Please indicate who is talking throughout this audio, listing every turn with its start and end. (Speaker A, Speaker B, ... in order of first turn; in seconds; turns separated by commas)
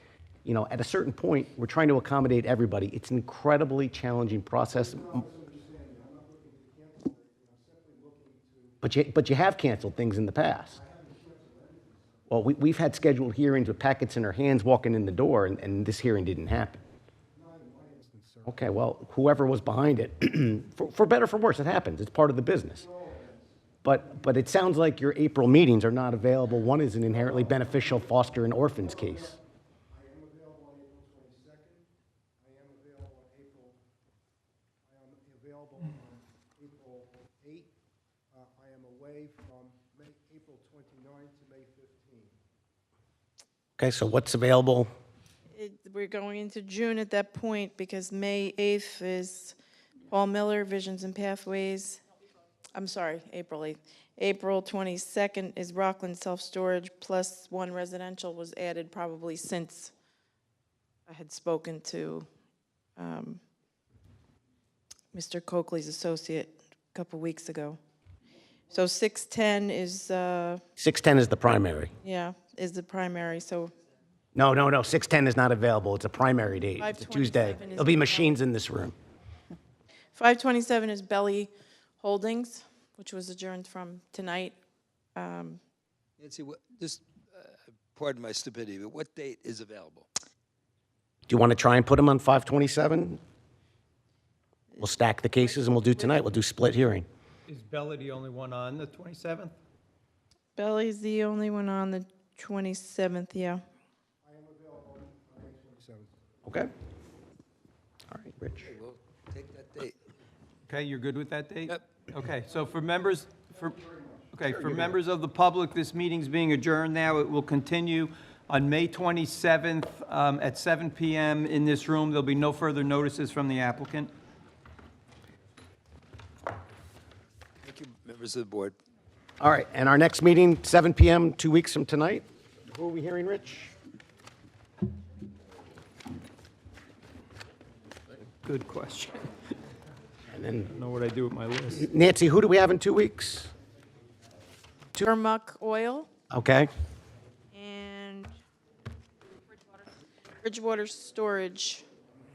Speaker A: 0.4-5.2, Speaker B: 4.7-8.8, Speaker A: 8.8-10.8, Speaker B: 10.7-12.2, Speaker A: 12.3-16.8, Speaker B: 17.3-18.7, Speaker A: 18.5-22.8, Speaker B: 22.8-23.6, Speaker A: 23.8-29.4, Speaker B: 27.1-29.4, Speaker B: 29.9-31.9, Speaker B: 32.4-33.8, Speaker B: 34.9-37.7, Speaker B: 38.3-42.4, Speaker A: 43.8-44.9, Speaker C: 45.5-49.6, Speaker C: 50.1-52.0, Speaker C: 52.7-59.9, Speaker C: 61.1-62.2, Speaker C: 63.0-63.4, Speaker C: 65.1-67.8, Speaker C: 68.7-70.6, Speaker A: 70.8-71.9, Speaker C: 72.0-73.7, Speaker A: 74.3-78.9, Speaker C: 76.8-78.4, Speaker C: 80.2-84.5, Speaker C: 85.1-85.6, Speaker D: 86.2-90.1, Speaker A: 91.3-93.2, Speaker A: 94.8-97.0, Speaker E: 97.5-99.5, Speaker C: 100.5-103.6, Speaker B: 104.2-106.2, Speaker A: 106.4-106.7, Speaker A: 108.1-108.7, Speaker D: 108.6-110.0, Speaker E: 110.7-113.8, Speaker D: 111.7-112.0, Speaker B: 113.6-114.3, Speaker E: 114.3-124.1, Speaker A: 114.5-114.9, Speaker D: 127.6-128.7, Speaker A: 129.4-133.7, Speaker E: 138.3-139.3, Speaker A: 140.3-140.7, Speaker E: 140.7-141.9, Speaker A: 141.8-143.5, Speaker C: 145.0-146.1, Speaker A: 146.3-146.7, Speaker C: 147.5-148.3, Speaker C: 150.4-151.8